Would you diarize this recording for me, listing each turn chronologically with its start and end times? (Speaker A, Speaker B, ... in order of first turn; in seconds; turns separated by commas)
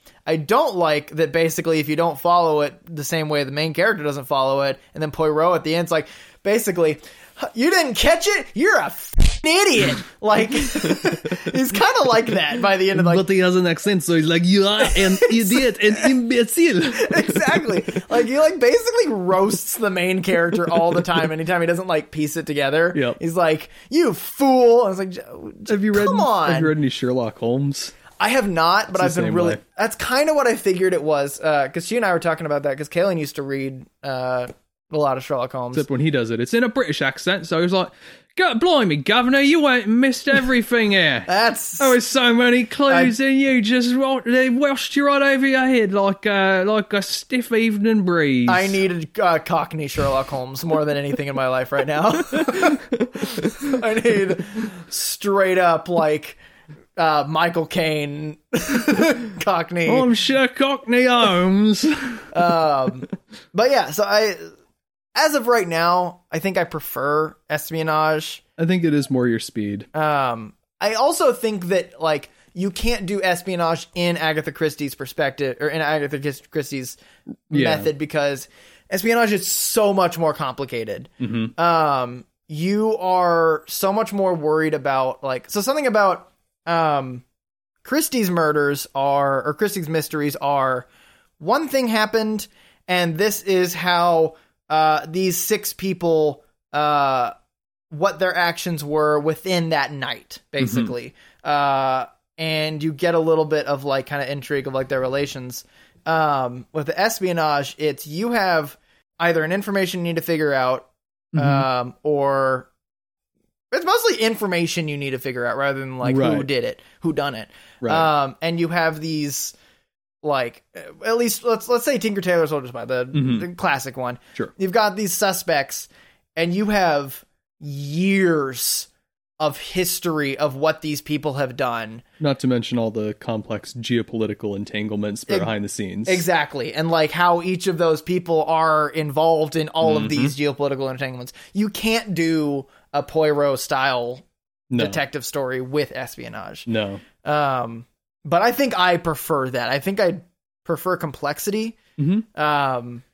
Speaker A: 0.3-13.2, Speaker B: 10.8-11.5, Speaker B: 12.9-18.1, Speaker A: 14.8-16.1, Speaker A: 16.9-26.7, Speaker B: 22.9-23.2, Speaker B: 25.7-28.0, Speaker A: 28.1-35.9, Speaker B: 28.9-29.6, Speaker B: 35.7-48.8, Speaker A: 41.3-41.9, Speaker A: 48.5-56.4, Speaker B: 52.3-53.8, Speaker A: 57.0-60.1, Speaker B: 59.9-62.3, Speaker A: 62.3-64.5, Speaker A: 65.2-68.4, Speaker B: 68.6-69.9, Speaker A: 69.9-77.0, Speaker B: 77.5-77.9, Speaker A: 77.5-87.2, Speaker B: 81.2-81.5, Speaker A: 87.8-90.9, Speaker A: 91.4-97.3, Speaker A: 97.9-112.7, Speaker B: 100.6-100.9, Speaker B: 111.3-111.7, Speaker A: 113.7-119.5, Speaker B: 116.0-116.5, Speaker B: 117.8-118.1, Speaker A: 120.2-128.9, Speaker B: 123.1-123.5, Speaker A: 129.4-132.0, Speaker B: 132.2-136.2, Speaker A: 136.1-144.2, Speaker B: 139.8-140.3, Speaker B: 144.7-145.0, Speaker A: 144.8-146.7, Speaker B: 146.7-147.0, Speaker A: 147.2-151.8, Speaker B: 152.0-152.3, Speaker A: 152.3-153.0